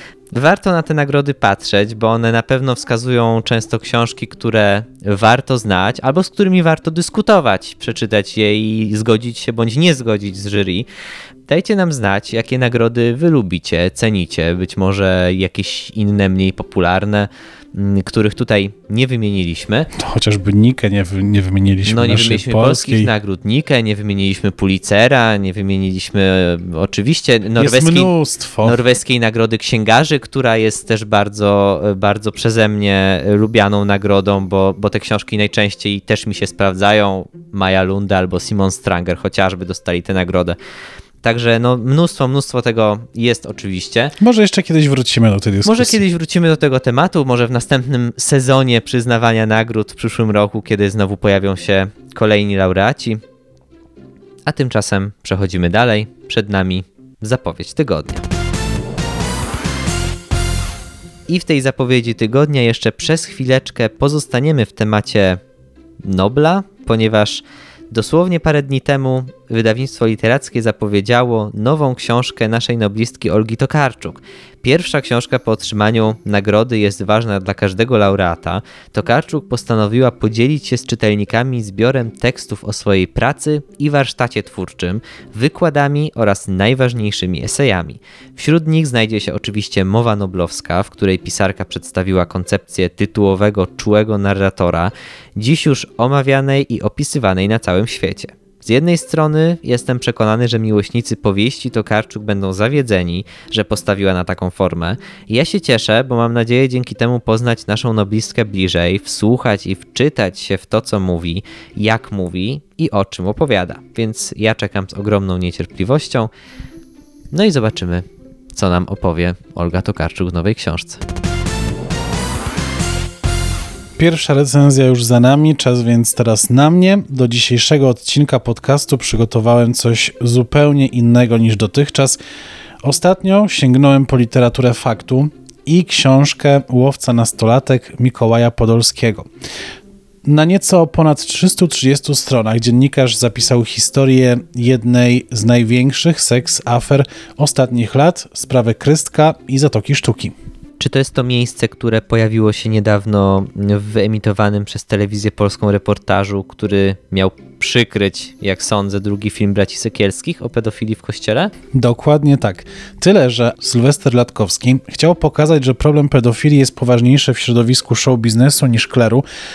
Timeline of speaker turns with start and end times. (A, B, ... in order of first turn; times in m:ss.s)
0:00.3-0:10.9 A
0:11.5-0:19.9 A
0:19.9-0:23.1 B
0:21.8-0:28.1 A
0:27.6-0:28.8 B
0:28.6-0:40.6 A
0:41.2-0:44.2 A
0:44.2-0:46.0 B
0:45.6-0:53.2 A
0:54.4-0:58.2 A
1:01.3-1:05.4 A
1:06.0-1:56.3 A
1:57.3-2:01.0 A
2:04.0-2:12.2 B
2:12.8-2:19.3 B
2:20.2-2:30.3 B
2:30.8-2:41.5 A
2:41.7-2:49.2 B